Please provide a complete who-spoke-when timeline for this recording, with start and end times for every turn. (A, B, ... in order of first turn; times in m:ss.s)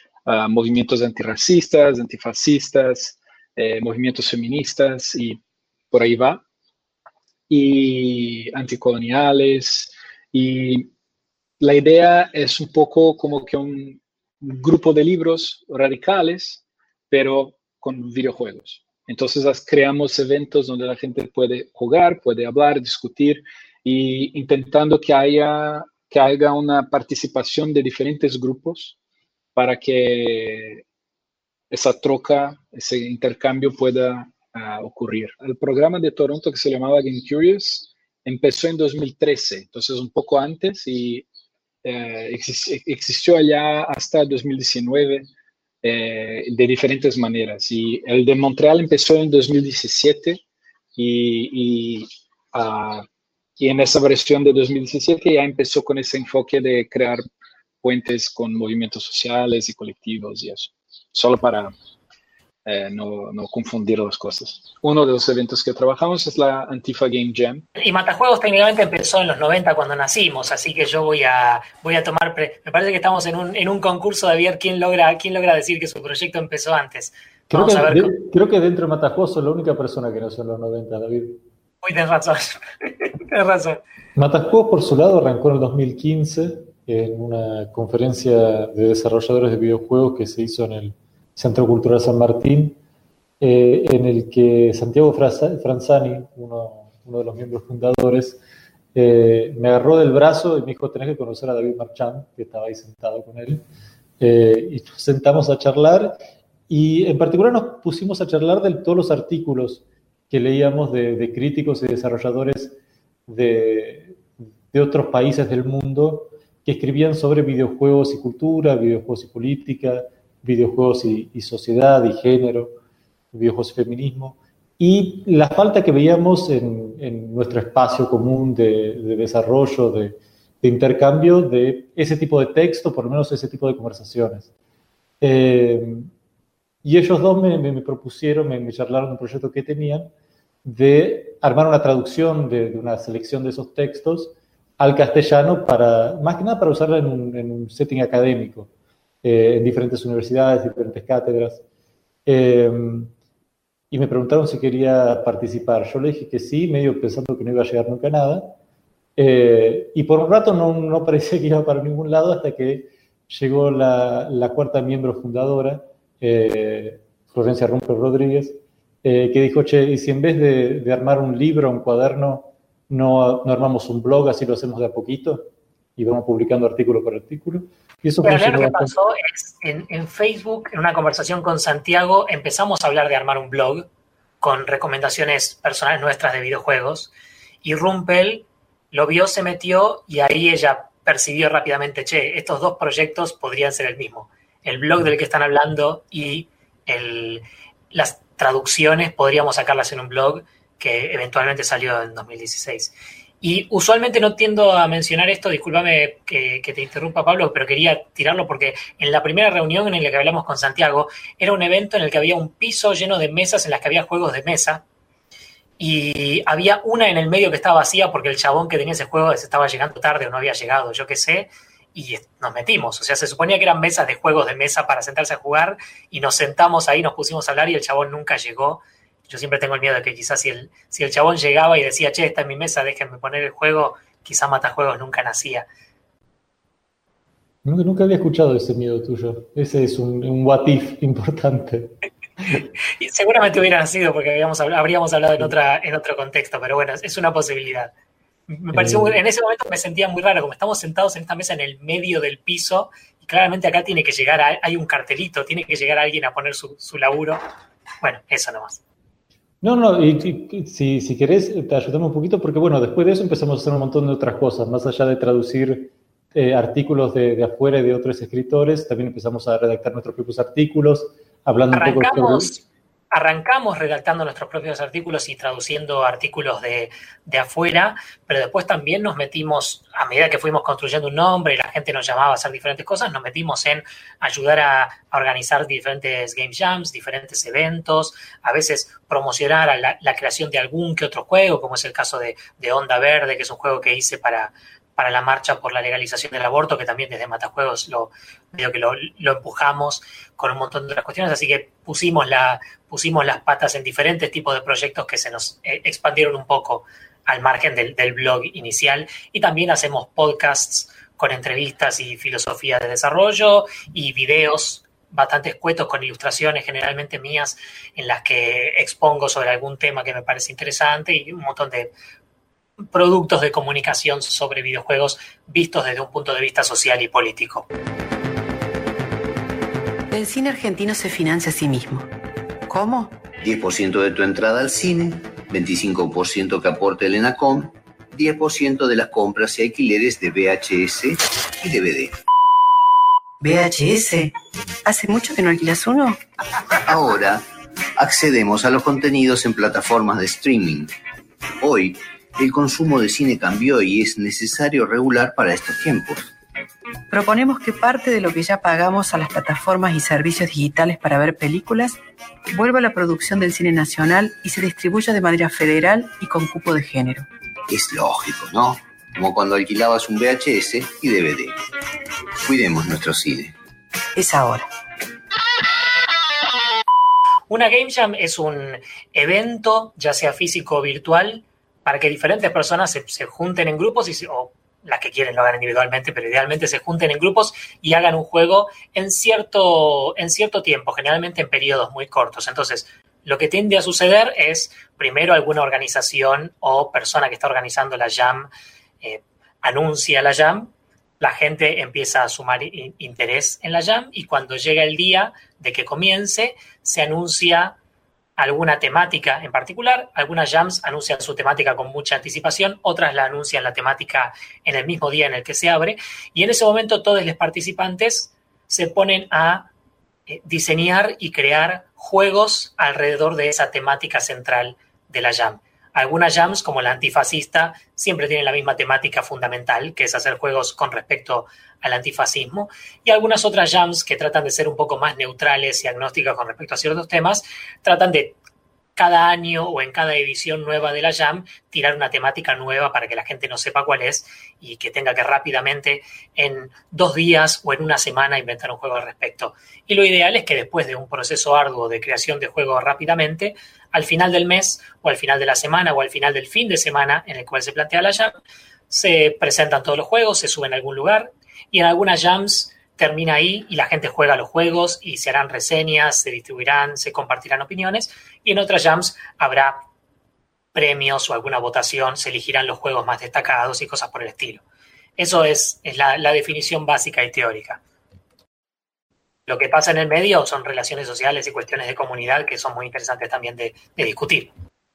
0:00.2-0:05.4 A
0:05.9-0:06.4 A
0:07.5-0:10.9 A
0:11.6-0:28.9 A
0:29.5-0:30.8 A
0:31.7-0:41.2 A
0:41.8-0:45.3 A
0:45.8-0:50.4 A
0:51.0-0:53.0 A
0:53.6-0:57.2 A
0:57.8-1:01.7 A
1:02.6-1:07.6 A
1:07.8-1:18.1 B
1:17.5-1:21.4 C
1:21.8-1:23.8 B
1:24.2-1:32.8 C
1:33.4-1:38.4 C
1:38.9-1:43.6 C
1:44.2-1:52.8 C
1:53.3-2:02.7 C
2:03.3-2:14.5 C
2:15.2-2:16.1 C
2:16.8-2:20.1 C
2:20.6-2:28.7 C
2:29.2-2:31.6 C
2:32.2-2:33.1 C
2:33.9-2:38.6 C
2:39.2-2:58.9 C
2:58.2-3:03.8 B
3:04.4-3:07.1 B
3:07.6-3:34.8 B
3:35.8-3:55.6 B
3:57.6-4:01.9 C
4:03.0-4:07.9 B
4:08.5-4:17.4 B
4:08.7-4:09.2 C
4:18.0-4:18.8 B
4:19.6-4:32.5 C
4:31.7-5:21.9 B
5:22.9-5:27.7 B
5:30.1-5:32.1 D
5:32.7-5:33.2 D
5:33.4-5:42.2 E
5:43.4-5:44.3 D
5:44.8-5:46.2 D
5:46.8-5:47.4 E
5:48.0-5:50.9 E
5:51.6-5:56.3 E
5:57.1-6:02.0 D
6:02.5-6:07.3 D
6:07.7-6:11.6 E
6:12.4-6:13.5 E
6:14.2-6:14.7 D
6:17.5-6:38.5 B
6:39.0-6:47.8 B
6:48.4-6:59.7 B
7:00.3-7:18.4 B
7:19.0-7:38.4 B
7:38.9-7:49.8 B
7:50.7-7:54.6 B
7:55.2-7:57.8 B
7:59.5-8:04.5 B